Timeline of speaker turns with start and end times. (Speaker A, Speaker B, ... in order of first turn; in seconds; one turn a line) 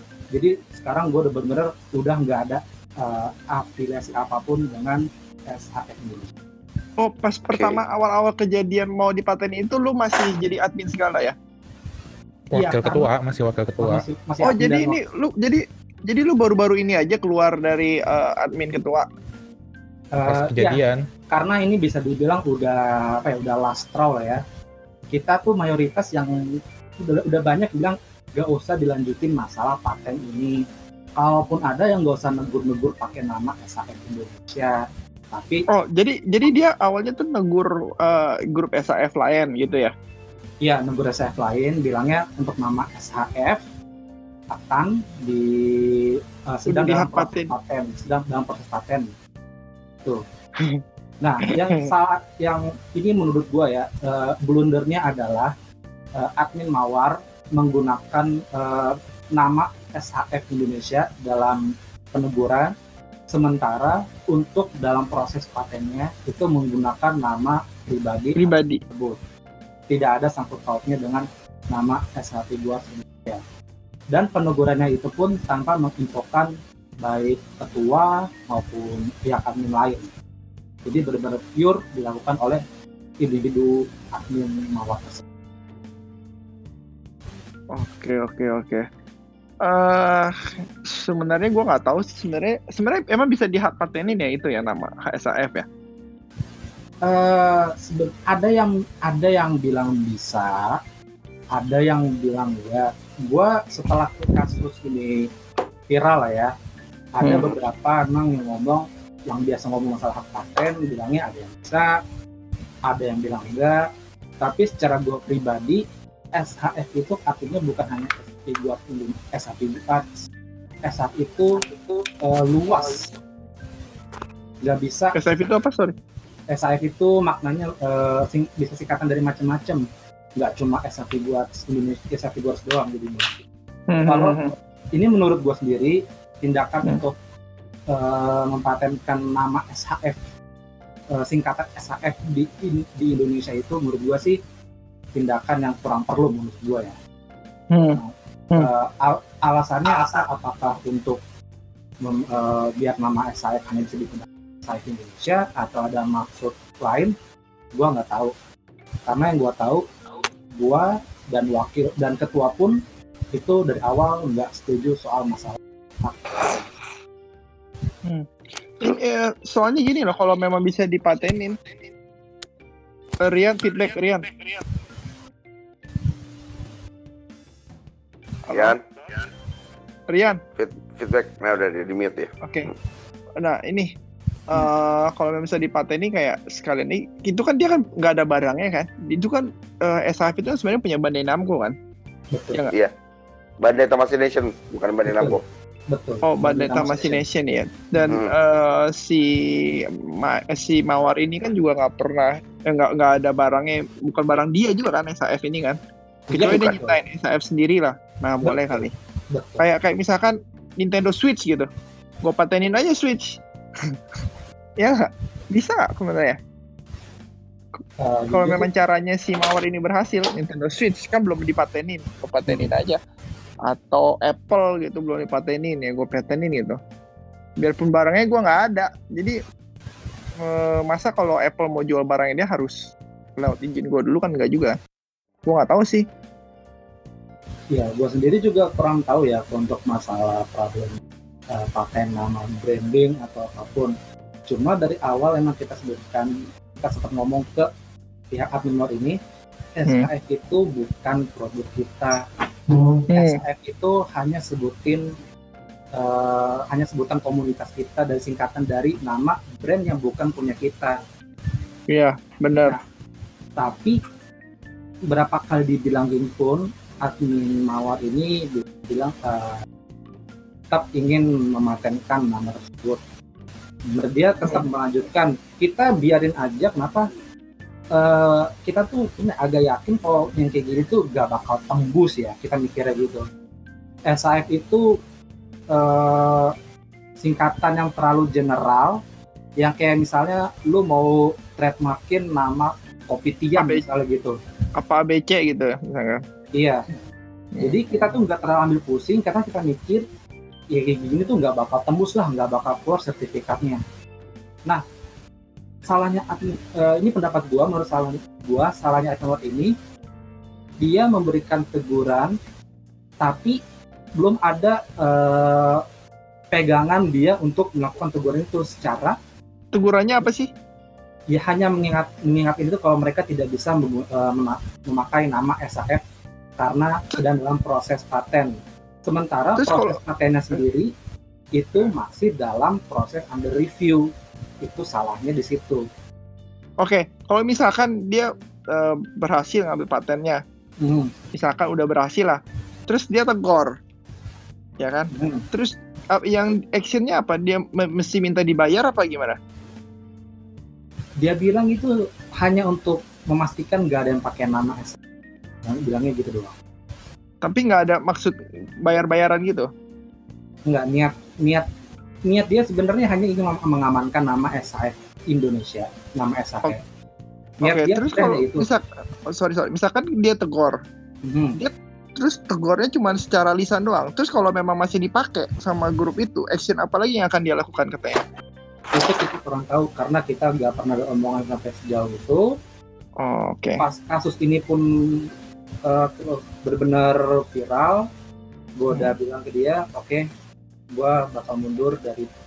Speaker A: 0.3-6.3
Speaker B: 7.0-11.3
Speaker C: 7.5-7.8
Speaker D: 12.5-14.0
Speaker A: 12.5-13.1
Speaker A: 13.8-15.0
Speaker B: 14.4-19.1
Speaker A: 20.1-24.4
Speaker D: 20.2-21.0
Speaker A: 25.1-26.3
Speaker A: 27.0-30.6
Speaker A: 31.2-34.8
Speaker A: 35.3-35.6
Speaker B: 35.7-39.9
Speaker A: 40.6-43.6
Speaker A: 44.5-49.1
Speaker B: 46.7-47.5
Speaker A: 51.2-55.5
Speaker A: 56.2-61.6
Speaker A: 62.1-62.7
Speaker A: 63.3-69.2
Speaker B: 68.4-68.8
Speaker A: 69.9-73.4
Speaker A: 74.1-80.1
Speaker A: 80.8-82.6
Speaker A: 83.2-85.2
Speaker B: 87.7-88.8
Speaker B: 89.6-95.7
Speaker A: 97.0-100.8
Speaker A: 101.5-105.2
Speaker A: 105.9-106.5
Speaker A: 107.1-111.9
Speaker B: 107.2-107.6
Speaker A: 112.8-113.8
Speaker A: 114.4-115.8
Speaker A: 116.3-120.3
Speaker A: 120.8-123.1
Speaker A: 124.6-125.2
Speaker B: 125.1-125.9
Speaker A: 126.5-129.8
Speaker A: 130.4-133.4
Speaker B: 133.9-134.5
Speaker A: 134.1-137.2
Speaker A: 137.9-140.2
Speaker A: 141.1-144.4
Speaker A: 145.1-147.0
Speaker B: 147.7-148.0
Speaker A: 147.9-151.2
Speaker A: 152.0-157.1
Speaker A: 157.8-158.3
Speaker A: 159.1-159.8
Speaker A: 160.6-162.8
Speaker A: 163.3-166.6
Speaker B: 168.8-171.6
Speaker B: 173.2-174.3
Speaker C: 178.5-178.8
Speaker B: 180.1-180.4
Speaker C: 180.6-182.3
Speaker B: 182.4-182.7
Speaker B: 183.4-183.9
Speaker B: 184.5-191.7
Speaker A: 192.3-192.6
Speaker C: 193.6-195.4
Speaker A: 195.0-195.4
Speaker A: 195.9-197.2
Speaker B: 196.2-199.3
Speaker B: 200.2-205.8
Speaker A: 206.3-207.0
Speaker B: 206.3-208.9
Speaker A: 208.4-209.6
Speaker B: 209.6-211.7
Speaker B: 212.2-213.9
Speaker B: 214.8-216.4
Speaker A: 218.0-218.7
Speaker B: 218.3-223.0
Speaker B: 223.7-226.8
Speaker B: 227.6-229.4
Speaker B: 230.4-232.8
Speaker B: 233.4-234.7
Speaker B: 235.4-236.0
Speaker A: 237.7-241.0
Speaker A: 241.5-243.9
Speaker A: 244.5-247.7
Speaker A: 248.3-249.2
Speaker A: 249.7-255.0
Speaker B: 253.1-253.4
Speaker A: 255.9-261.0
Speaker B: 261.9-262.8
Speaker A: 263.6-264.0
Speaker A: 265.1-269.6
Speaker A: 270.7-273.0
Speaker A: 273.9-277.1
Speaker A: 277.9-283.2
Speaker A: 284.1-284.8
Speaker A: 285.7-286.5
Speaker A: 287.2-289.0
Speaker A: 289.6-294.4
Speaker B: 293.6-293.8
Speaker B: 294.8-296.2
Speaker A: 296.5-296.9
Speaker B: 297.6-298.1
Speaker A: 297.6-300.0
Speaker A: 300.7-303.8
Speaker A: 305.9-309.7
Speaker A: 310.8-312.3
Speaker A: 313.2-313.6
Speaker A: 314.2-315.8
Speaker A: 316.5-319.2
Speaker B: 319.7-320.5
Speaker A: 321.3-326.0
Speaker A: 326.6-328.5
Speaker A: 329.1-330.9
Speaker B: 329.6-329.9
Speaker A: 331.6-334.1
Speaker A: 334.6-335.8
Speaker B: 336.8-340.4
Speaker A: 340.8-341.1
Speaker B: 341.3-343.7
Speaker B: 344.8-349.4
Speaker A: 345.1-345.4
Speaker A: 351.2-355.0
Speaker A: 355.6-356.6
Speaker B: 357.4-359.7
Speaker A: 360.7-361.6
Speaker A: 362.3-366.8
Speaker A: 367.6-368.6
Speaker B: 367.6-370.8
Speaker A: 371.2-371.6
Speaker B: 371.6-378.2
Speaker A: 378.9-382.5
Speaker B: 383.2-383.8
Speaker A: 383.8-385.3
Speaker A: 385.8-388.1
Speaker A: 388.8-390.2
Speaker A: 390.9-392.3